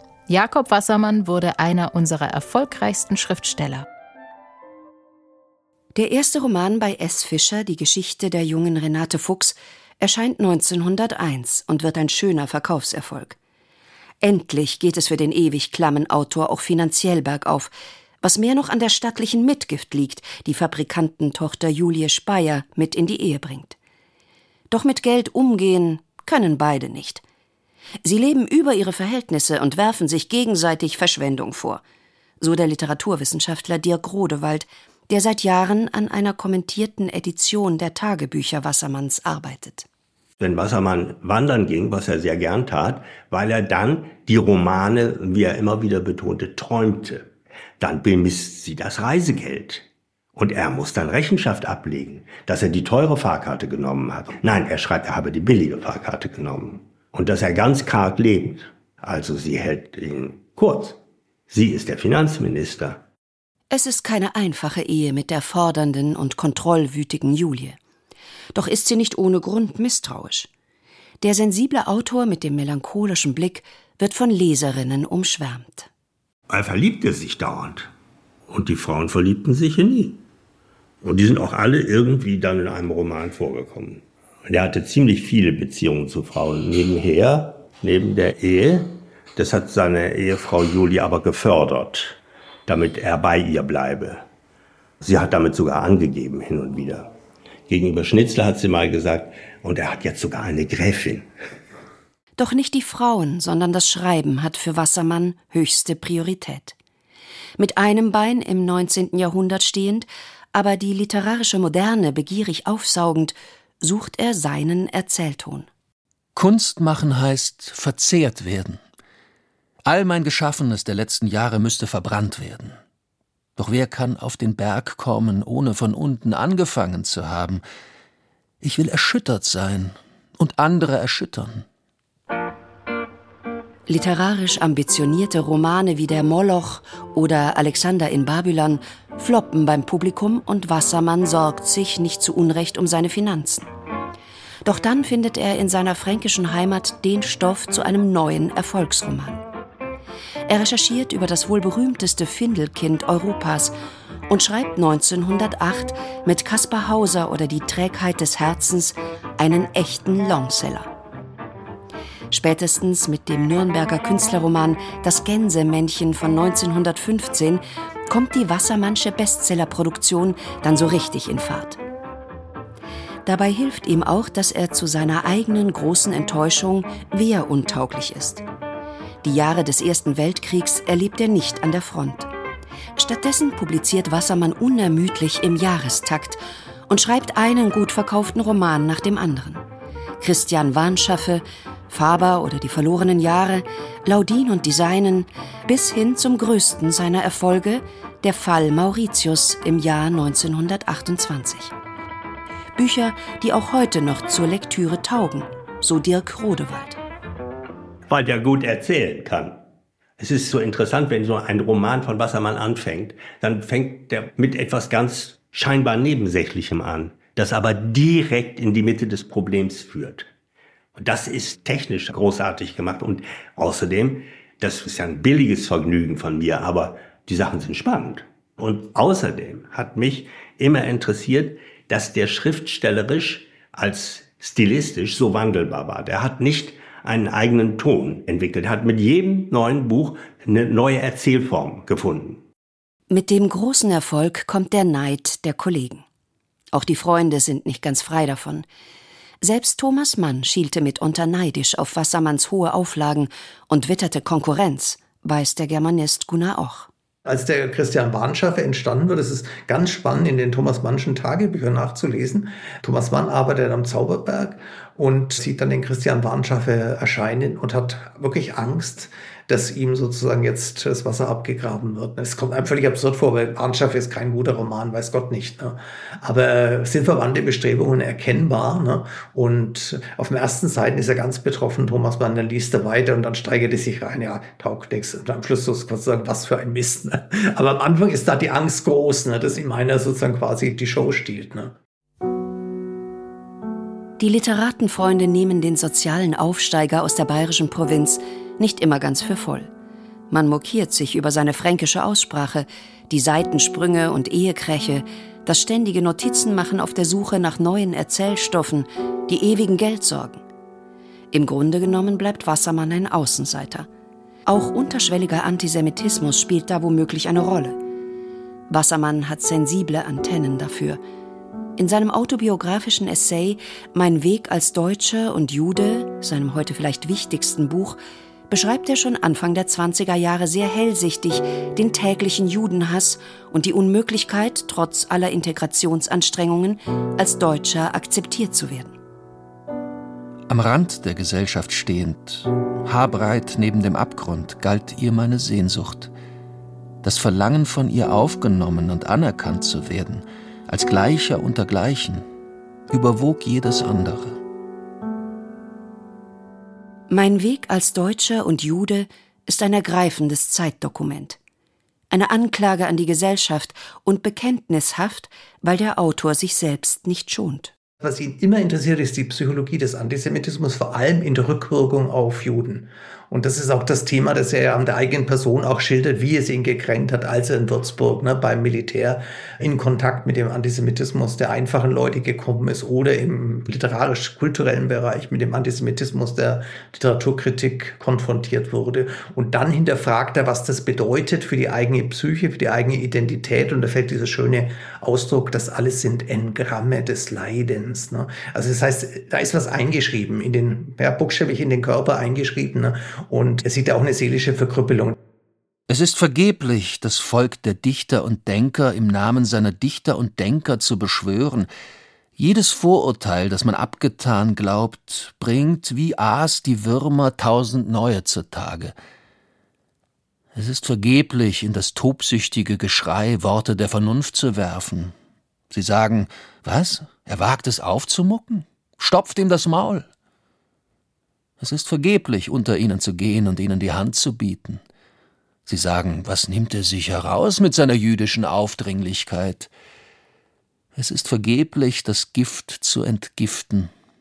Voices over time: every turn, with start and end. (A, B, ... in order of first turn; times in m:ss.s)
0:00.3-0:03.8 A
0:05.9-0:13.4 B
0:14.2-0:23.8 B
0:24.7-0:27.2 B
0:28.0-0:31.8 B
0:32.4-0:39.8 B
0:40.4-0:47.3 C
0:47.8-0:49.8 C
0:50.3-1:03.0 C
1:03.7-1:07.8 B
1:08.5-1:10.5 B
1:11.2-1:15.9 B
1:16.5-1:17.9 C
1:18.5-1:20.2 C
1:21.0-1:34.2 C
1:35.0-1:37.1 C
1:37.7-1:41.3 C
1:42.4-1:46.8 B
1:47.6-1:55.7 B
1:56.4-1:58.8 D
1:59.8-2:02.8 D
2:03.6-2:07.6 D
2:08.6-2:11.6 D
2:13.9-2:23.7 B
2:24.6-2:29.4 B
2:30.5-2:33.7 B
2:34.3-2:40.9 B
2:42.3-2:51.8 B
2:53.2-2:58.4 B
2:59.2-3:02.3 B
3:03.0-3:09.6 B
3:10.2-3:21.7 B
3:22.8-3:27.0 B
3:28.1-3:29.6 C
3:30.2-3:40.3 C
3:41.0-4:02.4 C
4:03.1-4:06.0 B
4:06.7-4:08.6 B
4:09.4-4:16.9 B
4:17.2-4:51.8 E
4:54.2-4:59.7 B
5:00.3-5:10.4 B
5:11.3-5:13.9 B
5:14.5-5:17.8 B
5:18.7-5:21.0 B
5:21.8-5:28.0 B
5:28.5-5:39.0 B
5:40.5-5:46.1 D
5:47.0-5:52.2 D
5:52.9-5:54.4 D
5:57.1-6:01.4 B
6:02.1-6:07.7 B
6:08.0-6:45.2 E
6:45.9-6:51.7 D
6:52.4-6:58.9 D
7:00.5-7:05.1 D
7:05.7-7:10.1 D
7:11.6-7:14.8 D
7:15.6-7:19.7 D
7:20.9-7:23.9 D